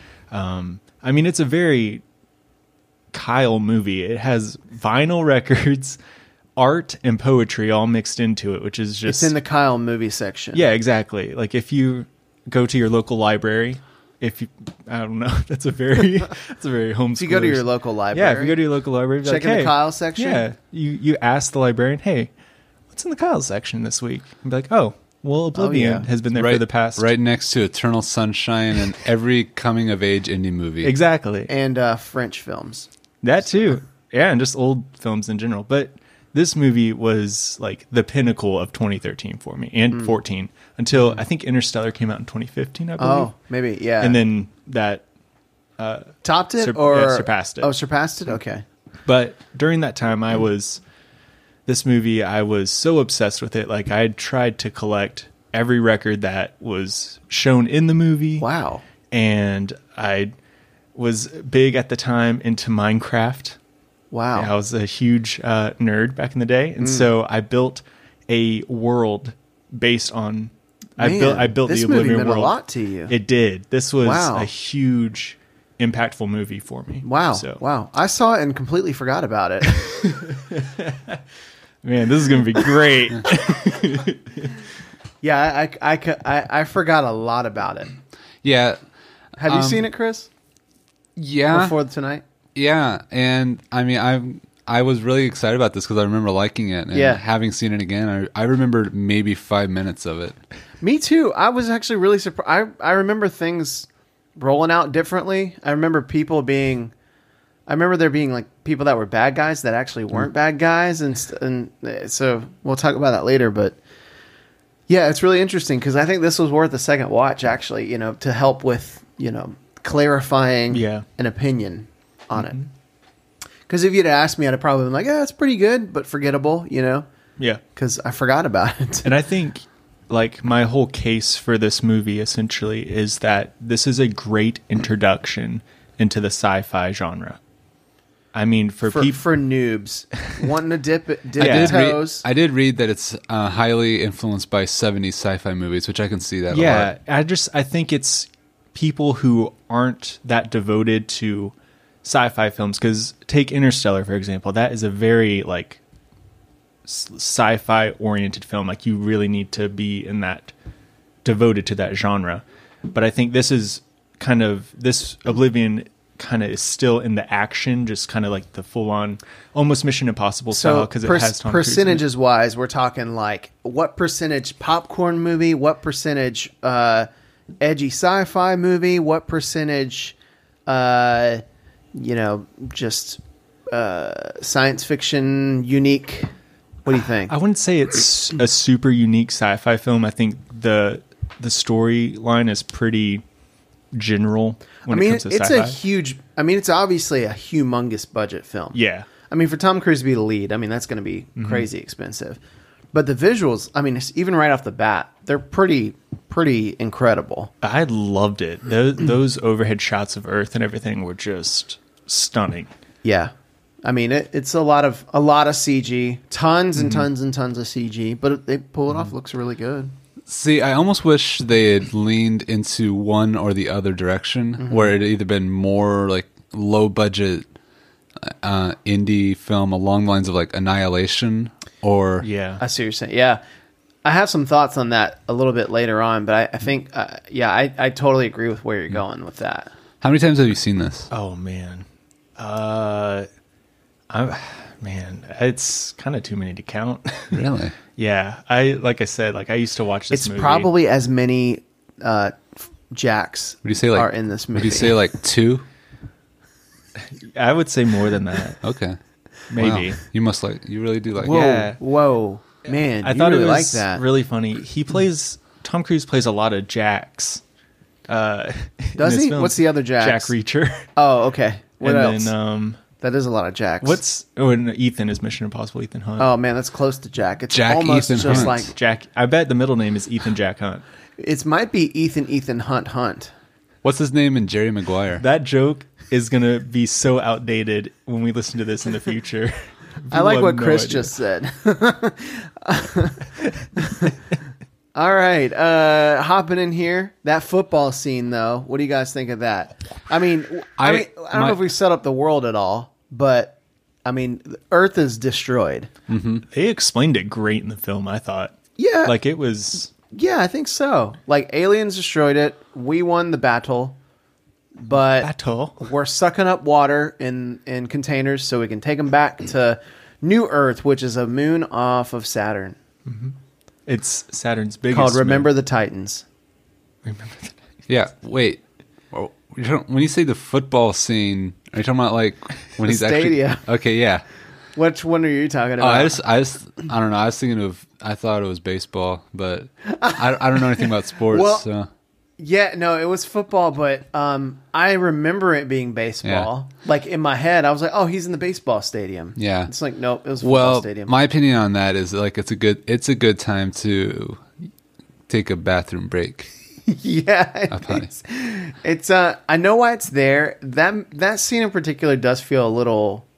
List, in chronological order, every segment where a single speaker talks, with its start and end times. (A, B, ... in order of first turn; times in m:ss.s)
0:00.3-0:02.0 A
0:03.1-0:06.0 A
0:06.6-0:09.3 A
0:09.1-0:10.6 B
0:10.5-0:22.3 A
0:17.2-0:18.6 B
0:19.2-0:20.5 B
0:22.9-0:27.1 A
0:25.6-0:26.1 B
0:26.3-0:30.9 C
0:30.8-0:31.5 A
0:31.5-0:32.9 B
0:33.2-0:43.3 A
0:39.9-0:40.2 B
0:43.0-0:44.2 B
0:44.0-0:45.0 A
0:45.8-0:47.7 A
0:46.2-0:48.6 B
0:49.1-0:50.8 A
0:51.7-0:58.5 A
0:58.4-0:58.8 B
0:59.1-1:00.3 A
1:01.0-1:03.6 A
1:04.1-1:04.5 B
1:04.4-1:12.6 A
1:06.8-1:07.1 B
1:11.0-1:13.2 B
1:13.1-1:17.6 A
1:14.0-1:14.5 B
1:17.0-1:20.1 B
1:19.8-1:21.2 A
1:21.8-1:24.6 A
1:25.2-1:27.9 B
1:28.4-1:28.8 C
1:29.4-1:29.9 C
1:29.4-1:30.3 B
1:31.2-1:31.8 C
1:31.5-1:32.2 B
1:32.6-1:40.4 C
1:36.9-1:37.2 B
1:40.8-1:46.9 B
1:47.7-1:53.8 B
1:54.9-2:02.6 B
2:00.7-2:01.0 A
2:02.4-2:02.7 A
2:03.7-2:07.1 B
2:07.8-2:09.1 B
2:09.0-2:17.4 A
2:18.3-2:19.2 A
2:18.8-2:22.2 B
2:21.4-2:21.8 A
2:21.4-2:26.9 C
2:26.5-2:31.5 A
2:32.0-2:35.8 A
2:36.9-2:40.5 A
2:41.2-2:52.0 A
2:50.5-2:57.1 B
2:57.6-3:00.2 B
3:00.7-3:01.4 B
3:01.9-3:03.2 B
3:03.7-3:06.3 B
3:06.9-3:07.3 B
3:07.3-3:13.2 A
3:13.9-3:15.8 A
3:14.9-3:18.8 B
3:18.7-3:19.1 A
3:19.3-3:22.4 B
3:21.4-3:21.7 A
3:22.9-3:27.5 B
3:27.6-3:32.7 A
3:33.0-3:39.9 B
3:36.8-3:37.1 A
3:40.3-3:47.5 C
3:44.6-3:44.9 B
3:48.2-3:52.3 C
3:52.2-3:52.6 A
3:52.6-3:53.4 B
3:54.0-3:59.7 B
4:00.0-4:01.1 C
4:01.1-4:01.8 A
4:02.4-4:03.3 A
4:04.1-4:07.4 A
4:07.3-4:07.8 C
4:08.0-4:10.7 A
4:10.1-4:15.0 B
4:13.6-4:15.6 C
4:17.2-4:18.6 A
4:18.6-4:19.0 C
4:19.5-4:20.0 A
4:19.6-4:21.5 C
4:21.2-4:21.8 A
4:21.2-4:24.0 B
4:23.0-4:27.4 A
4:28.1-4:30.9 A
4:29.0-4:30.3 B
4:31.0-4:32.3 B
4:31.8-4:32.8 A
4:33.0-4:34.0 B
4:33.8-4:36.3 A
4:36.2-4:38.7 B
4:37.5-4:38.7 C
4:38.2-4:40.8 A
4:41.2-4:43.3 B
4:43.8-4:45.2 C
4:45.2-4:51.1 A
4:50.1-4:54.2 B
4:55.0-5:05.9 B
5:00.8-5:01.6 C
5:06.1-5:06.4 C
5:06.5-5:09.9 A
5:08.8-5:09.2 B
5:10.0-5:14.0 B
5:14.8-5:22.8 B
5:15.2-5:15.8 A
5:23.1-5:23.3 A
5:23.9-5:25.5 A
5:24.9-5:26.2 B
5:27.0-5:27.6 A
5:27.9-5:34.2 C
5:32.8-5:33.6 B
5:34.8-5:36.2 B
5:35.8-5:41.9 C
5:39.9-5:40.2 B
5:41.3-5:41.7 B
5:42.4-5:51.2 B
5:46.2-5:46.5 C
5:49.4-5:49.7 C
5:50.4-5:54.4 C
5:55.3-5:56.5 C
5:56.9-6:03.2 B
5:57.7-5:58.1 C